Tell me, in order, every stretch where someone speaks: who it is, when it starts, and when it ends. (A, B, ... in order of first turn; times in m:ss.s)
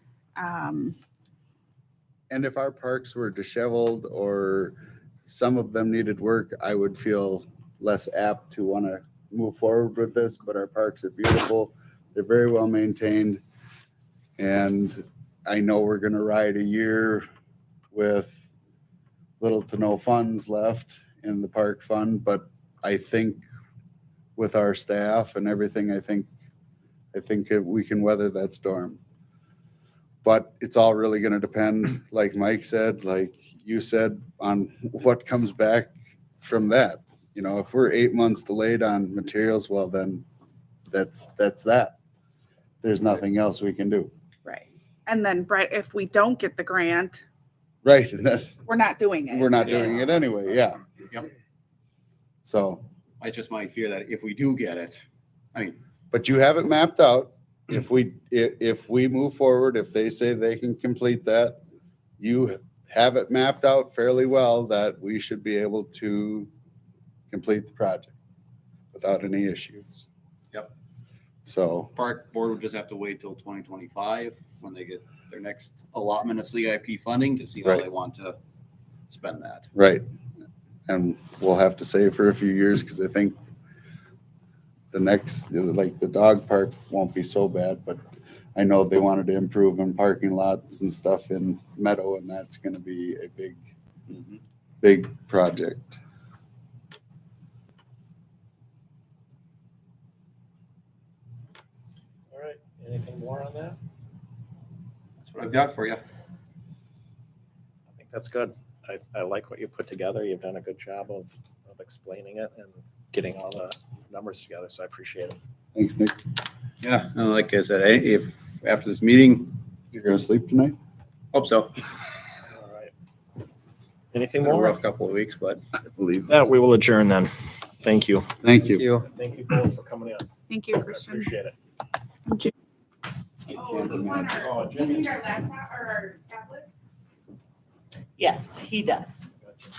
0:00.4-0:01.0 A
0:02.3-0:13.4 B
0:14.4-0:17.2 B
0:17.9-0:18.4 B
0:19.4-0:23.4 B
0:24.4-0:26.3 B
0:27.1-0:29.0 B
0:30.2-0:40.2 B
0:40.9-0:42.0 B
0:42.8-0:44.1 B
0:44.4-0:47.2 A
0:47.8-0:48.5 B
0:48.7-0:49.8 A
0:49.3-0:50.9 B
0:49.6-0:50.1 C
0:52.4-0:52.8 B
0:53.2-0:55.0 C
0:56.1-1:01.6 B
1:02.2-1:06.5 B
1:07.3-1:08.1 B
1:08.9-1:10.1 B
1:11.4-1:11.9 B
1:12.0-1:18.4 C
1:19.1-1:19.7 C
1:19.8-1:20.0 B
1:20.9-1:23.4 B
1:24.9-1:28.0 B
1:28.6-1:33.6 B
1:34.1-1:34.4 C
1:34.8-1:36.0 B
1:42.3-1:43.8 D
1:45.2-1:46.0 C
1:47.9-1:55.4 D
1:55.8-1:56.2 B
1:56.8-1:59.6 C
1:59.9-2:00.8 B
2:01.3-2:01.9 C
2:02.5-2:02.9 D
2:04.1-2:04.8 D
2:04.4-2:05.6 C
2:06.0-2:06.3 B
2:06.3-2:08.3 D
2:08.4-2:08.9 B
2:08.8-2:11.6 D
2:10.5-2:11.3 A
2:13.5-2:14.5 B
2:13.5-2:16.7 A